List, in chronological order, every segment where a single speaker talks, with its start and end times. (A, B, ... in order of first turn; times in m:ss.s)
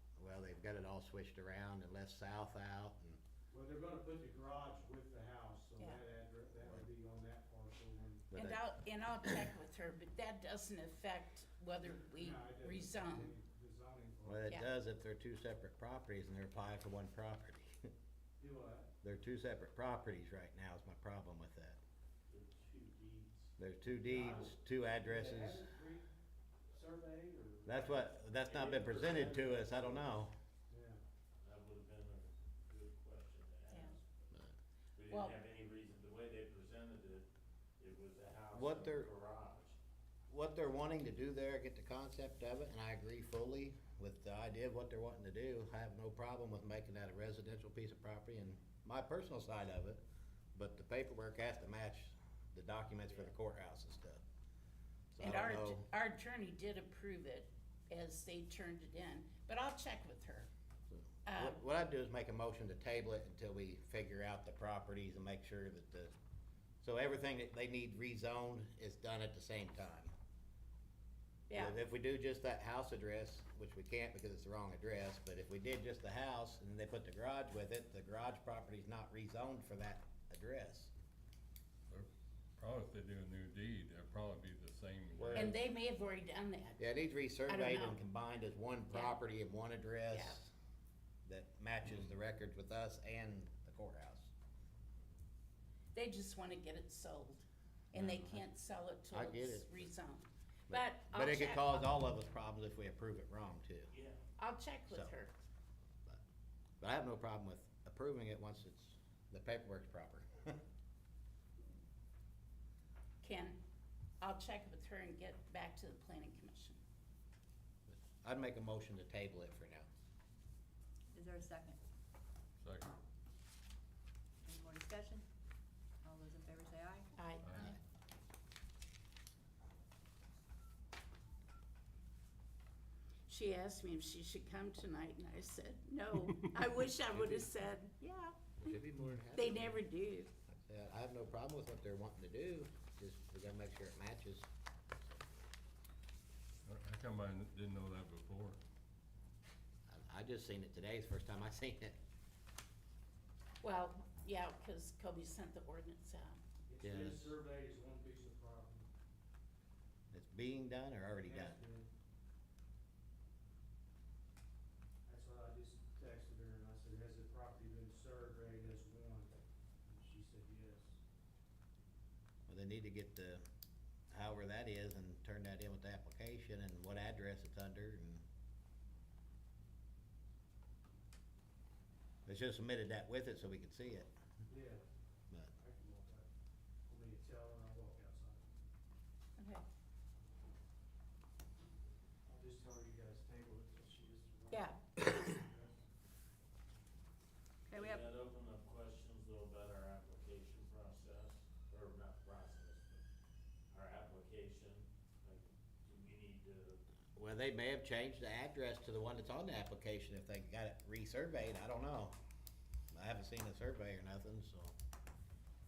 0:00.2-0:03.2 A
0:03.5-0:08.3 B
0:08.3-0:08.6 A
0:08.3-0:13.3 C
0:11.8-0:14.5 B
0:14.2-0:17.8 A
0:18.4-0:18.9 B
0:19.0-0:21.8 A
0:22.3-0:23.5 D
0:23.6-0:25.6 A
0:24.0-0:26.1 B
0:26.7-0:28.1 B
0:27.7-0:30.3 A
0:28.4-0:29.9 D
0:29.1-0:30.0 B
0:30.7-0:31.0 B
0:31.4-0:34.3 D
0:35.0-0:37.3 D
0:35.1-0:35.4 C
0:37.8-0:39.8 D
0:38.5-0:39.1 A
0:40.3-0:50.0 A
0:50.6-0:54.2 A
0:55.1-0:55.9 A
0:55.2-1:00.5 C
1:00.9-1:06.1 A
1:01.3-1:01.6 C
1:06.8-1:10.1 A
1:11.5-1:11.8 C
1:11.5-1:20.9 A
1:21.9-1:25.6 E
1:25.2-1:25.5 A
1:25.4-1:26.8 C
1:26.8-1:30.5 A
1:27.5-1:28.0 C
1:28.9-1:29.2 C
1:30.1-1:30.4 C
1:31.3-1:34.3 A
1:35.9-1:41.9 C
1:37.9-1:38.5 A
1:39.1-1:39.9 A
1:40.7-1:43.9 A
1:43.9-1:44.2 D
1:44.4-1:45.3 C
1:46.8-1:50.6 A
1:53.2-1:53.6 C
1:54.2-1:56.8 C
1:57.9-1:59.9 A
2:01.1-2:01.8 F
2:02.6-2:02.9 E
2:04.4-2:05.2 F
2:06.0-2:07.1 F
2:07.2-2:07.8 C
2:07.4-2:07.8 E
2:13.3-2:18.8 C
2:17.2-2:17.5 A
2:18.6-2:19.8 A
2:19.3-2:20.3 C
2:20.5-2:24.5 A
2:26.7-2:28.6 E
2:29.9-2:32.0 A
2:33.6-2:36.4 C
2:36.7-2:38.9 B
2:36.8-2:37.3 A
2:40.1-2:41.6 A
2:41.2-2:41.9 B
2:45.1-2:51.0 B
2:52.5-2:53.4 A
2:54.1-2:58.2 A
3:02.3-3:04.1 A
3:04.5-3:04.8 B
3:05.5-3:06.3 B
3:06.9-3:08.5 B
3:09.4-3:09.6 C
3:12.3-3:15.8 B
3:14.5-3:15.1 C
3:17.7-3:18.0 F
3:17.7-3:23.0 D
3:23.7-3:26.8 D
3:27.2-3:32.2 A
3:32.9-3:34.7 A